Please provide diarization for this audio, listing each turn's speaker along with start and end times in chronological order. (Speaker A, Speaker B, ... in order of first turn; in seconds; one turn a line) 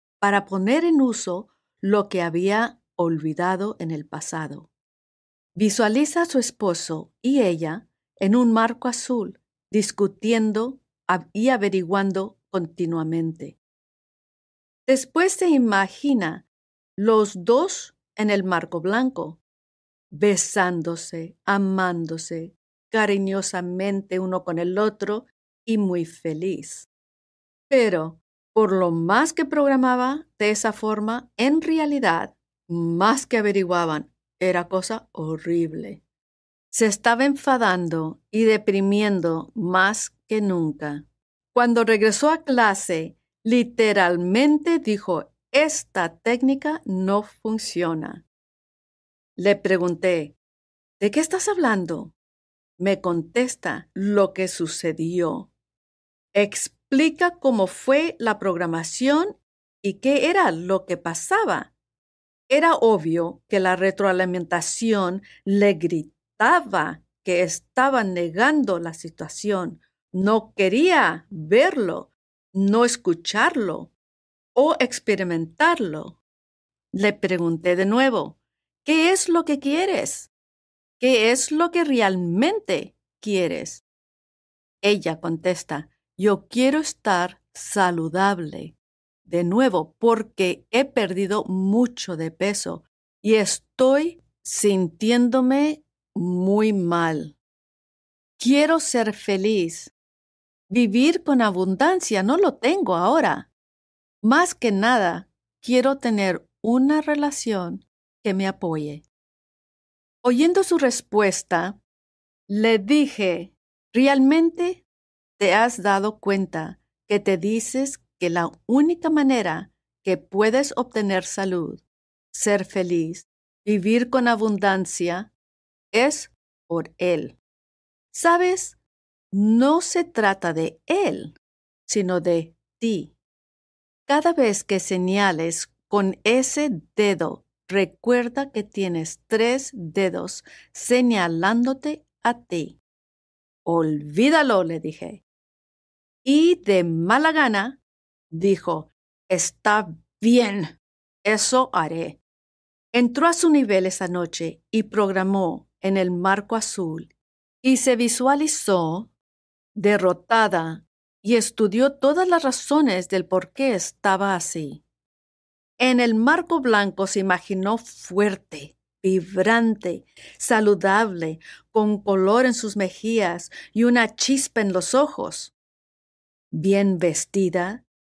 Speaker A: 0.2-4.7
Speaker A: 5.5-13.6
Speaker A: 14.9-16.4
Speaker A: 17.0-19.4
Speaker A: 20.1-26.9
Speaker A: 27.7-36.0
Speaker A: 36.7-48.2
Speaker A: 49.4-50.4
Speaker A: 51.0-52.1
Speaker A: 52.8-55.5
Speaker A: 56.3-61.7
Speaker A: 62.5-73.9
Speaker A: 74.5-76.2
Speaker A: 76.9-80.3
Speaker A: 81.0-83.8
Speaker A: 84.8-97.4
Speaker A: 98.4-99.9
Speaker A: 100.7-103.5
Speaker A: 104.2-109.0
Speaker A: 110.2-111.8
Speaker A: 112.5-114.8
Speaker A: 115.4-125.3
Speaker A: 125.9-127.4
Speaker A: 128.1-128.8
Speaker A: 129.3-133.1
Speaker A: 134.1-142.8
Speaker A: 143.7-145.2
Speaker A: 146.2-147.8
Speaker A: 148.3-152.2
Speaker A: 152.9-157.1
Speaker A: 157.6-159.1
Speaker A: 159.7-164.8
Speaker A: 165.8-175.5
Speaker A: 176.5-177.8